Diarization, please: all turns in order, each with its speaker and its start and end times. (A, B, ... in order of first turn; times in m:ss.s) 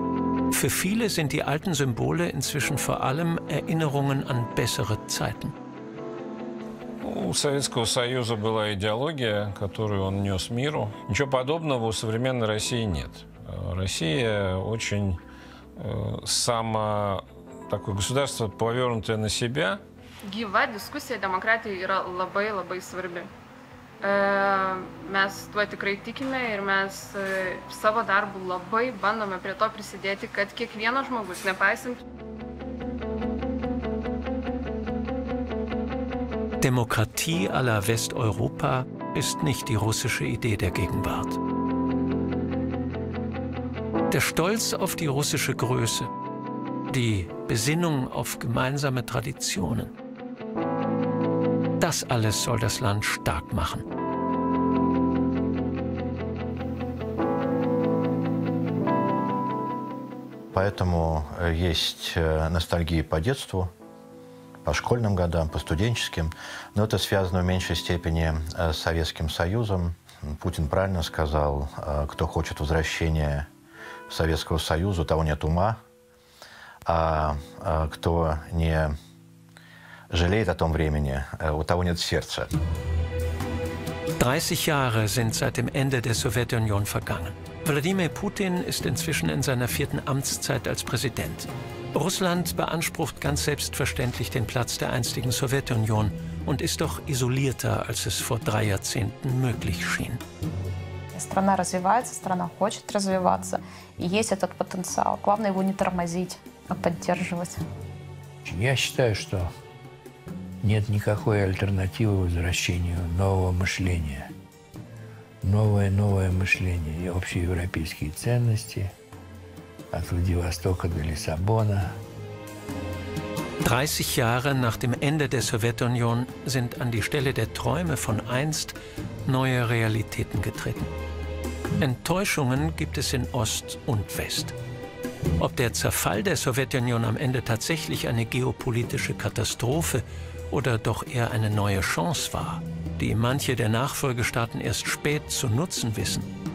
0:00.5-0:05.5 A
0:07.0-0:15.2 B
0:15.8-0:19.8 B
0:20.2-0:23.3 C
0:24.0-0:32.0 C
0:36.6-0:41.4 A
0:44.1-0:46.1 A
0:46.9-0:49.9 A
0:51.8-0:53.8 A
1:00.5-1:03.7 D
1:04.6-1:13.5 D
1:14.1-1:15.8 D
1:16.8-1:19.0 D
1:20.1-1:22.5 D
1:24.2-1:40.2 A
1:41.1-1:47.6 E
1:48.4-1:49.5 F
1:50.6-1:54.3 F
1:55.4-1:58.9 F
1:59.9-2:02.0 F
2:03.6-2:10.9 A
2:11.8-2:14.5 A
2:15.4-2:26.3 A